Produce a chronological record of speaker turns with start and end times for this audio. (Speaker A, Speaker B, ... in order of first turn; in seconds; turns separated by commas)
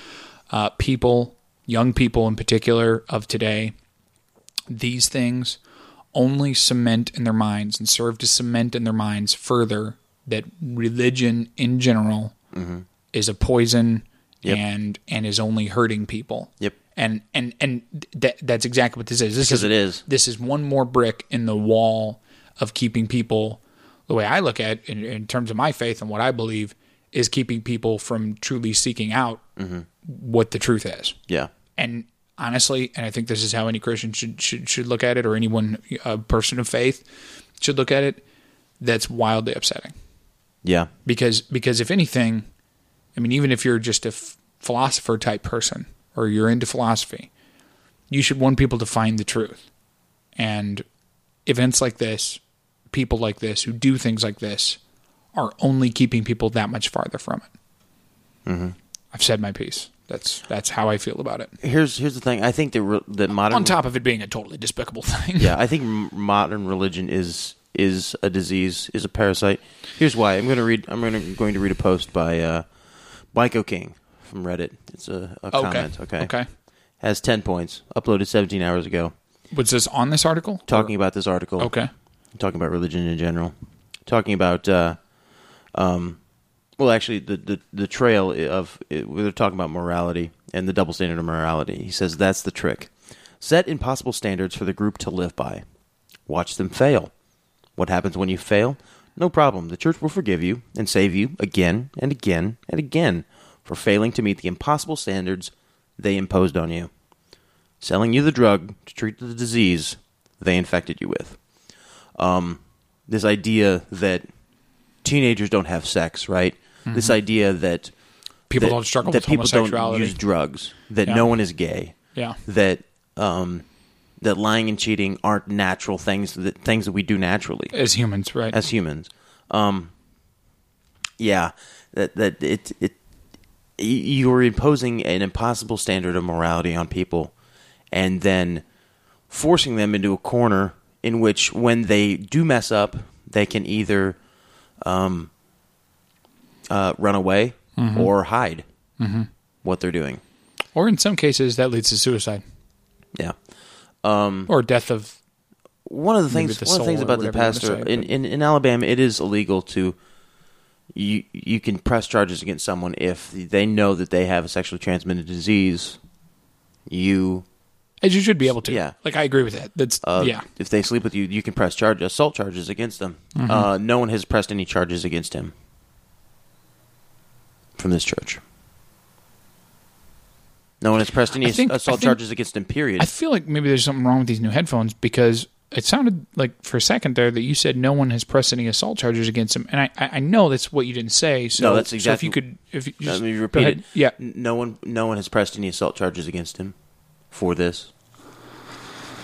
Speaker A: 0.5-3.7, Speaker A: 4.7-5.6, Speaker A: 6.1-12.3, Speaker B: 12.5-12.8, Speaker A: 13.1-29.4, Speaker B: 19.4-20.0, Speaker B: 29.6-29.9, Speaker A: 30.0-31.2, Speaker A: 31.8-37.0, Speaker A: 37.6-38.2, Speaker A: 38.8-39.9, Speaker B: 40.6-40.9, Speaker A: 41.0-42.5, Speaker A: 43.1-47.3, Speaker A: 48.1-49.6, Speaker A: 50.4-50.8, Speaker A: 51.5-54.8, Speaker A: 55.3-57.5, Speaker B: 58.5-58.8, Speaker A: 59.1-61.5, Speaker B: 61.6-63.8, Speaker A: 63.5-65.5, Speaker B: 65.4-72.7, Speaker B: 73.3-76.3, Speaker A: 75.5-76.5, Speaker B: 77.0-79.1, Speaker A: 79.5-80.9, Speaker B: 80.7-81.7, Speaker A: 81.6-81.9, Speaker B: 82.3-83.5, Speaker B: 84.0-85.0, Speaker B: 85.7-86.2, Speaker B: 86.8-95.6, Speaker B: 96.3-97.1, Speaker B: 97.8-106.9, Speaker B: 107.8-111.4, Speaker B: 112.2-114.2, Speaker B: 115.0-117.9, Speaker A: 116.9-117.2, Speaker A: 118.5-120.2, Speaker B: 118.5-123.6, Speaker B: 124.2-127.7, Speaker A: 127.7-128.6, Speaker B: 128.5-129.9, Speaker B: 131.2-132.9, Speaker B: 133.8-137.3, Speaker B: 137.9-138.6, Speaker B: 139.3-144.2, Speaker B: 144.8-145.3, Speaker B: 146.7-148.6, Speaker A: 147.8-148.1, Speaker A: 149.0-149.3, Speaker B: 149.6-150.2, Speaker A: 150.7-152.4, Speaker B: 154.0-154.5, Speaker A: 154.5-155.2, Speaker B: 155.8-160.0, Speaker A: 156.3-158.1, Speaker B: 160.9-166.0, Speaker B: 166.9-167.4, Speaker A: 168.0-170.4, Speaker B: 168.7-168.9, Speaker B: 170.0-175.5, Speaker A: 173.3-173.7, Speaker B: 177.8-178.4, Speaker B: 180.8-183.1, Speaker A: 181.4-182.2, Speaker A: 183.0-194.2, Speaker B: 191.6-192.3, Speaker B: 193.0-196.7, Speaker B: 197.3-197.9